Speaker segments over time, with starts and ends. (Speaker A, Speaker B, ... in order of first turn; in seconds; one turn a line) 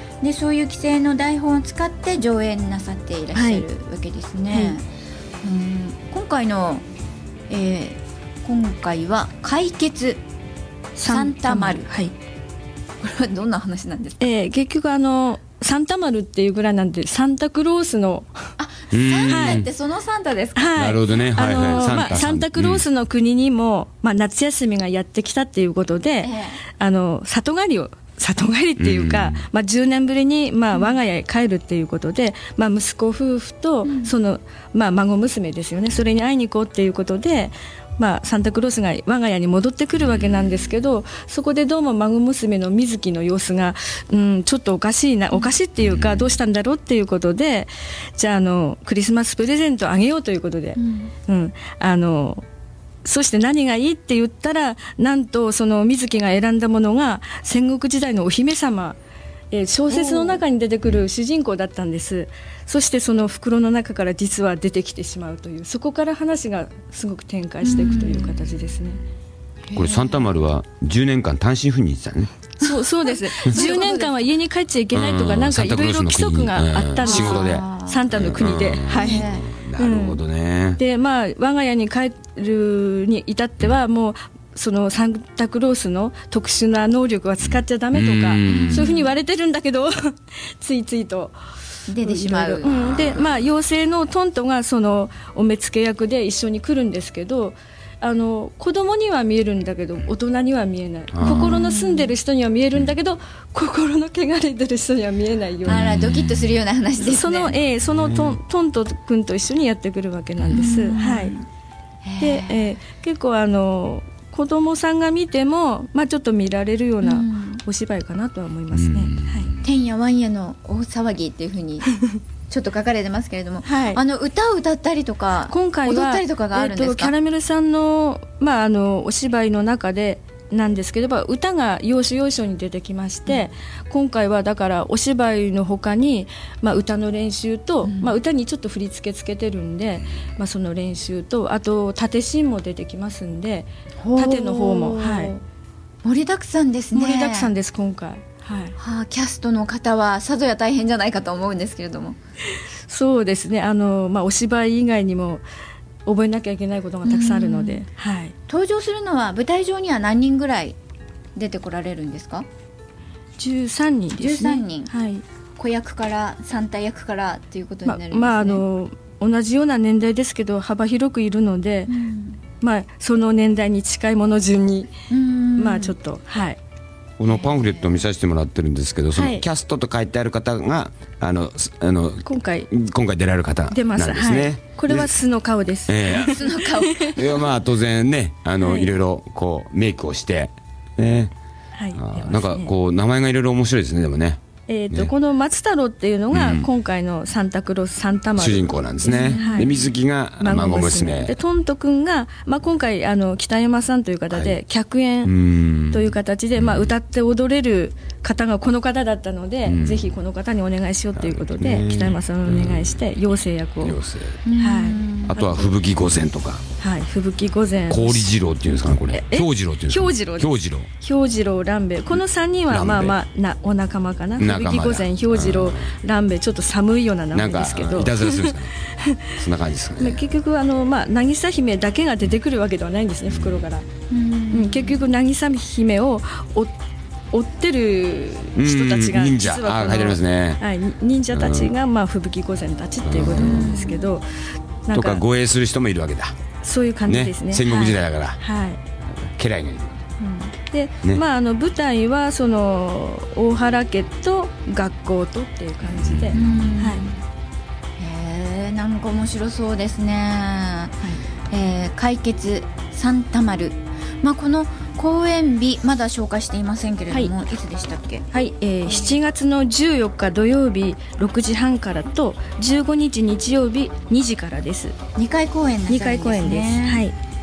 Speaker A: 0.2-4.9
Speaker B: 3.4-3.6
Speaker B: 4.5-4.8
Speaker A: 5.4-6.9
Speaker A: 7.5-10.2
Speaker B: 11.0-12.1
Speaker A: 11.1-11.9
Speaker A: 13.0-14.3
Speaker B: 14.2-18.5
Speaker A: 18.6-20.8
Speaker C: 18.9-19.7
Speaker B: 19.2-19.6
Speaker B: 20.6-52.4
Speaker C: 20.8-22.9
Speaker A: 21.5-22.2
Speaker A: 26.2-26.6
Speaker C: 28.8-29.5
Speaker A: 30.7-31.0
Speaker A: 33.8-34.1
Speaker C: 40.0-40.5
Speaker C: 45.8-46.3
Speaker A: 50.8-51.1
Speaker B: 53.0-59.0
Speaker B: 59.5-69.0
Speaker A: 59.9-60.4
Speaker A: 67.6-68.5
Speaker A: 69.7-70.3
Speaker C: 69.7-72.3
Speaker B: 72.6-79.3
Speaker A: 72.6-74.2
Speaker C: 74.9-80.8
Speaker A: 77.0-78.1
Speaker A: 78.9-79.5
Speaker B: 79.8-80.2
Speaker B: 80.8-91.4
Speaker C: 87.4-88.9
Speaker A: 88.5-89.1
Speaker A: 91.9-93.2
Speaker B: 92.0-106.0
Speaker C: 92.9-93.2
Speaker C: 101.1-101.6
Speaker A: 101.3-102.2
Speaker C: 105.7-106.6
Speaker A: 105.7-107.5
Speaker B: 107.0-111.4
Speaker C: 107.6-108.4
Speaker C: 110.4-110.8
Speaker A: 110.5-111.5
Speaker A: 112.0-112.8
Speaker B: 112.2-119.5
Speaker A: 117.0-117.6
Speaker C: 118.7-119.7
Speaker A: 119.6-127.1
Speaker B: 123.6-124.0
Speaker B: 125.5-145.3
Speaker A: 137.8-138.2
Speaker A: 144.0-145.4
Speaker A: 146.0-147.5
Speaker B: 146.9-148.8
Speaker A: 148.8-152.2
Speaker B: 152.6-155.4
Speaker B: 156.1-158.3
Speaker A: 157.0-157.8
Speaker A: 158.5-160.8
Speaker A: 161.3-162.5
Speaker B: 163.4-165.2
Speaker A: 164.2-164.9
Speaker A: 165.6-168.6
Speaker B: 167.8-171.9
Speaker A: 171.9-172.4
Speaker B: 172.6-174.9
Speaker A: 175.1-175.9
Speaker B: 175.6-176.6
Speaker C: 177.2-185.1
Speaker A: 177.3-178.0
Speaker B: 179.2-179.4
Speaker B: 182.2-182.7
Speaker B: 183.7-187.2
Speaker C: 185.9-186.4
Speaker A: 186.1-187.5
Speaker C: 187.1-191.3
Speaker B: 188.6-188.9
Speaker B: 191.8-192.7
Speaker C: 191.9-195.1
Speaker B: 194.7-199.8
Speaker C: 196.3-196.7
Speaker C: 198.4-201.4
Speaker A: 199.2-199.7
Speaker B: 200.4-205.3
Speaker C: 204.3-204.6
Speaker C: 205.2-206.9
Speaker B: 205.9-214.0
Speaker C: 209.7-210.2
Speaker C: 211.2-213.0
Speaker C: 213.8-214.4
Speaker A: 214.4-215.4
Speaker B: 214.6-215.7
Speaker C: 215.3-216.7
Speaker B: 216.8-218.3
Speaker C: 217.9-220.9
Speaker B: 219.1-220.5
Speaker B: 221.0-229.4
Speaker C: 222.7-223.2
Speaker C: 224.4-225.9
Speaker C: 227.3-228.8
Speaker C: 229.4-230.2
Speaker B: 230.0-233.9
Speaker C: 233.3-233.6
Speaker A: 234.1-235.1
Speaker B: 234.5-236.8
Speaker B: 237.3-244.3
Speaker C: 238.6-240.6
Speaker C: 241.3-241.8
Speaker C: 243.0-243.8
Speaker A: 243.3-244.0
Speaker B: 244.9-245.2
Speaker C: 244.9-246.4
Speaker B: 246.6-248.8
Speaker C: 247.1-248.4
Speaker C: 249.0-250.0
Speaker B: 250.2-257.1
Speaker C: 255.9-256.8
Speaker A: 256.3-257.2
Speaker A: 258.0-261.0
Speaker A: 261.5-268.3
Speaker B: 268.3-275.0
Speaker A: 268.9-269.2
Speaker A: 275.2-277.1
Speaker B: 275.9-277.1